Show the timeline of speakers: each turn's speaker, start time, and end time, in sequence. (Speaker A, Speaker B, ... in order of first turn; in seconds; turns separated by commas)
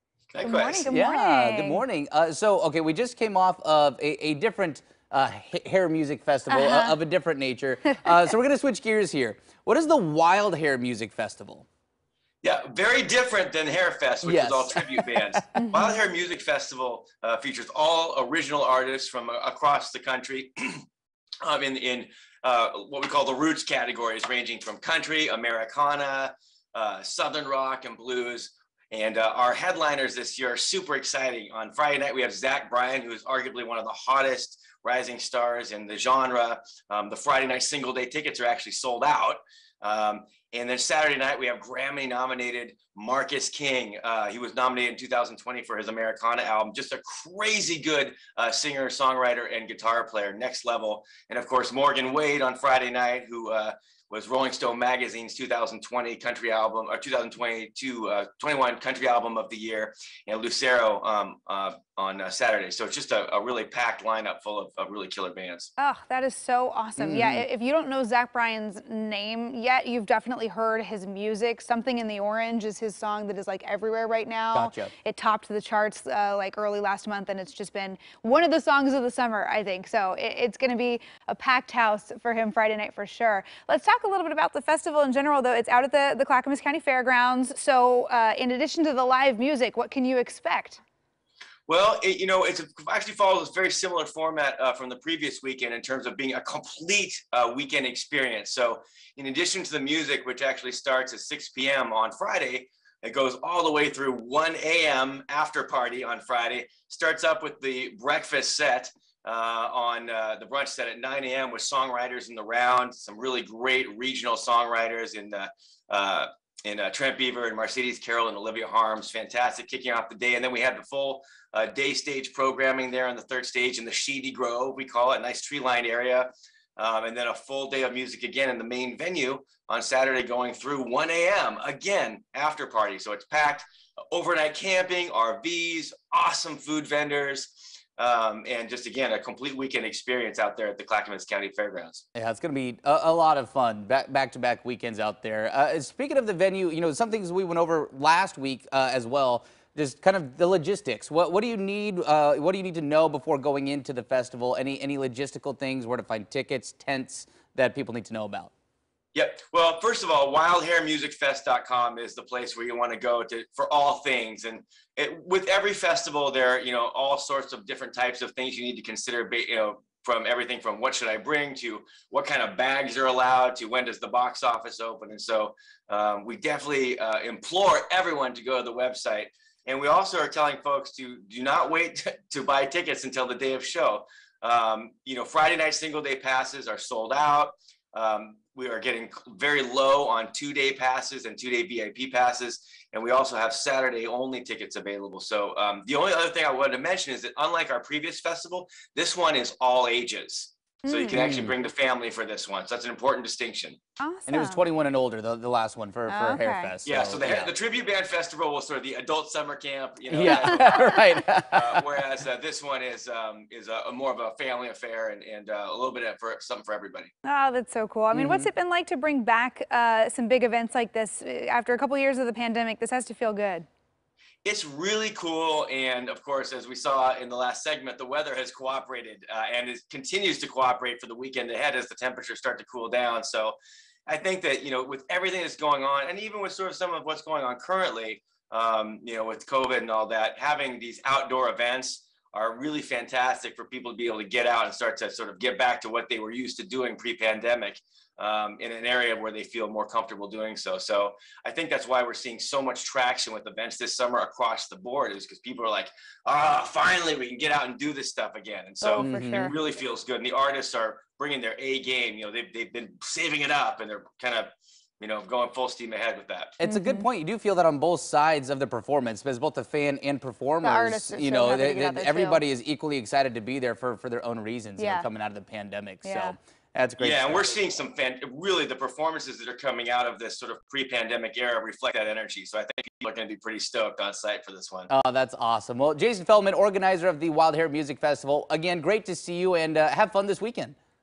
Speaker A: 0.3-0.9, Speaker B: 0.4-1.8, Speaker C: 0.9-11.7, Speaker B: 6.5-7.0, Speaker A: 12.4-20.8, Speaker C: 14.2-15.4, Speaker B: 15.6-15.9, Speaker A: 21.4-65.7, Speaker B: 65.8-90.8, Speaker C: 67.0-67.4, Speaker C: 74.5-74.9, Speaker A: 91.7-142.0, Speaker C: 142.1-158.5, Speaker A: 159.1-203.8, Speaker B: 200.8-201.1, Speaker C: 201.1-201.5, Speaker B: 204.0-204.6, Speaker C: 204.3-207.5, Speaker B: 206.1-206.7, Speaker A: 206.8-217.1, Speaker C: 210.1-211.8, Speaker B: 217.2-223.7, Speaker C: 218.1-218.5, Speaker A: 224.4-266.6, Speaker B: 258.8-259.6, Speaker C: 259.0-259.5, Speaker C: 266.6-277.5, Speaker B: 266.6-267.1, Speaker B: 270.6-272.4, Speaker B: 274.8-275.1, Speaker B: 276.0-276.4, Speaker A: 277.0-284.9, Speaker C: 284.9-290.7